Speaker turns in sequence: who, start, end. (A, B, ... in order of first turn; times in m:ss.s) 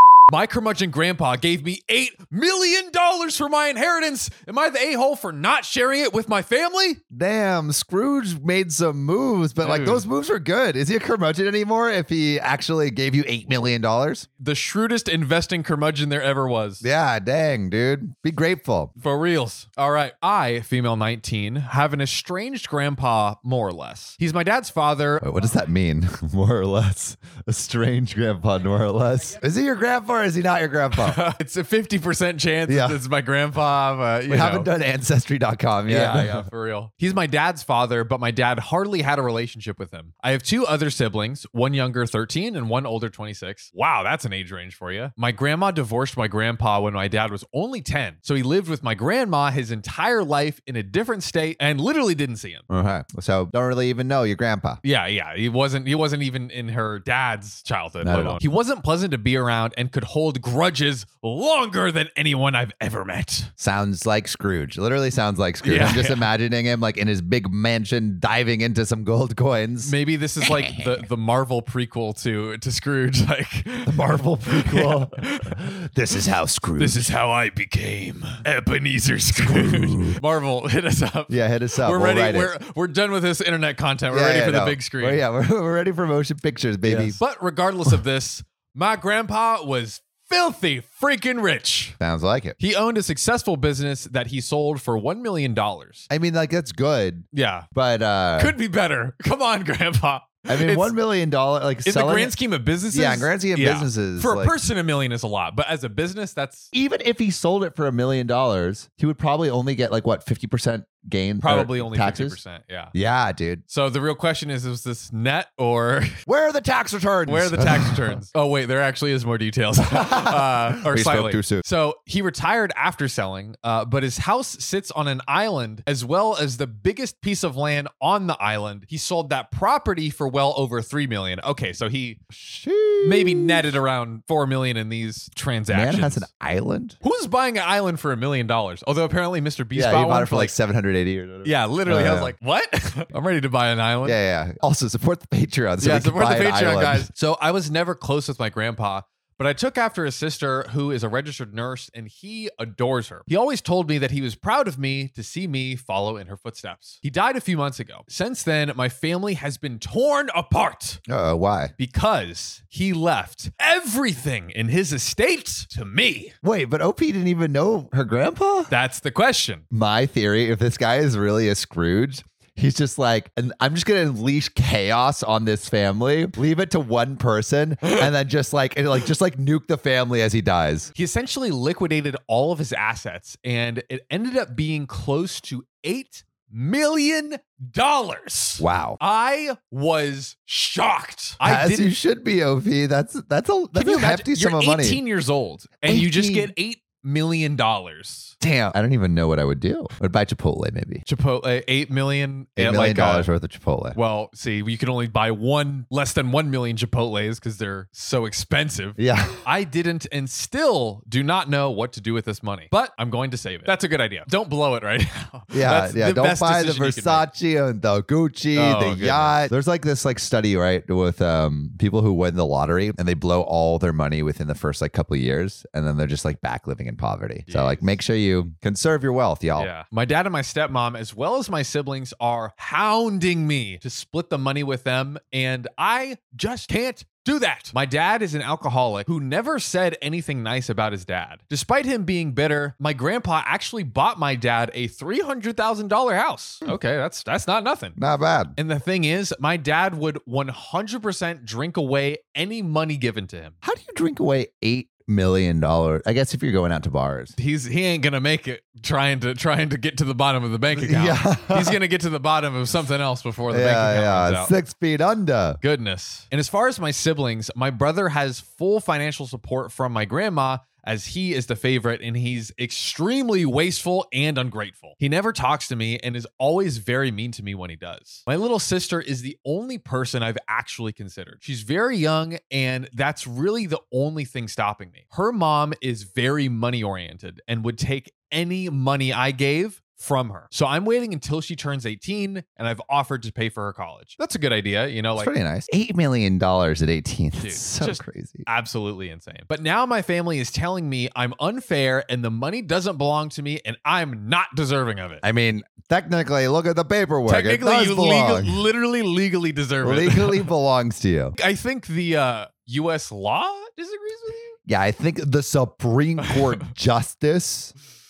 0:00.3-0:07.0 A
0:07.1-0:14.2 B
0:09.6-0:10.0 A
0:14.4-0:16.8 A
0:16.8-0:18.9 B
0:19.0-0:25.3 A
0:25.2-0:31.2 B
0:30.9-0:34.7 A
0:32.7-0:33.0 B
0:34.3-0:36.4 B
0:35.8-0:52.6 A
0:52.7-0:54.8 B
0:54.8-1:03.5 A
0:58.0-0:58.4 B
1:03.6-1:10.9 B
1:05.6-1:06.3 A
1:09.8-1:15.6 A
1:13.9-1:17.1 B
1:16.8-1:25.2 A
1:19.3-1:20.2 B
1:21.3-1:22.5 B
1:24.1-1:27.2 B
1:26.8-1:31.9 A
1:32.0-1:32.6 B
1:32.6-1:36.1 A
1:36.1-1:38.5 B
1:37.3-1:37.7 A
1:38.4-1:41.0 A
1:40.5-1:42.3 B
1:41.8-1:46.7 A
1:42.9-1:44.5 B
1:46.7-1:52.4 B
1:51.4-1:52.9 A
1:52.9-1:53.6 B
1:53.7-1:56.1 A
1:56.2-1:58.2 B
1:57.3-2:12.2 A
1:59.9-2:01.6 B
2:12.3-2:13.7 B
2:13.0-2:16.3 A
2:15.7-2:17.0 B
2:17.0-2:20.6 A
2:19.7-2:22.3 B
2:21.4-2:24.2 A
2:24.0-2:27.1 B
2:25.8-2:41.0 A
2:41.1-2:41.7 B
2:41.8-2:46.3 A
2:46.4-2:48.7 B
2:48.7-2:49.6 A
2:49.7-3:00.9 B
3:00.9-3:12.0 A
3:08.6-3:09.0 B
3:11.4-3:15.0 B
3:13.7-3:18.3 A
3:15.8-3:16.5 B
3:18.4-3:21.0 B
3:21.1-3:23.3 A
3:22.6-3:24.0 B
3:23.9-3:37.3 A
3:29.0-3:29.4 B
3:35.5-3:49.7 B
3:38.5-3:39.5 A
3:47.5-3:48.0 A
3:49.6-4:08.0 A
4:08.0-4:08.6 B
4:08.6-4:13.5 A
4:13.6-4:17.3 B
4:17.4-4:24.5 A
4:20.7-4:21.8 B
4:23.5-4:25.6 B
4:25.6-4:55.3 A
4:55.2-4:58.5 B
4:57.4-5:05.2 A
5:05.2-5:08.6 B
5:07.3-5:10.5 A
5:09.8-5:11.3 B
5:11.4-5:14.6 A
5:14.7-5:17.7 B
5:16.2-5:16.4 A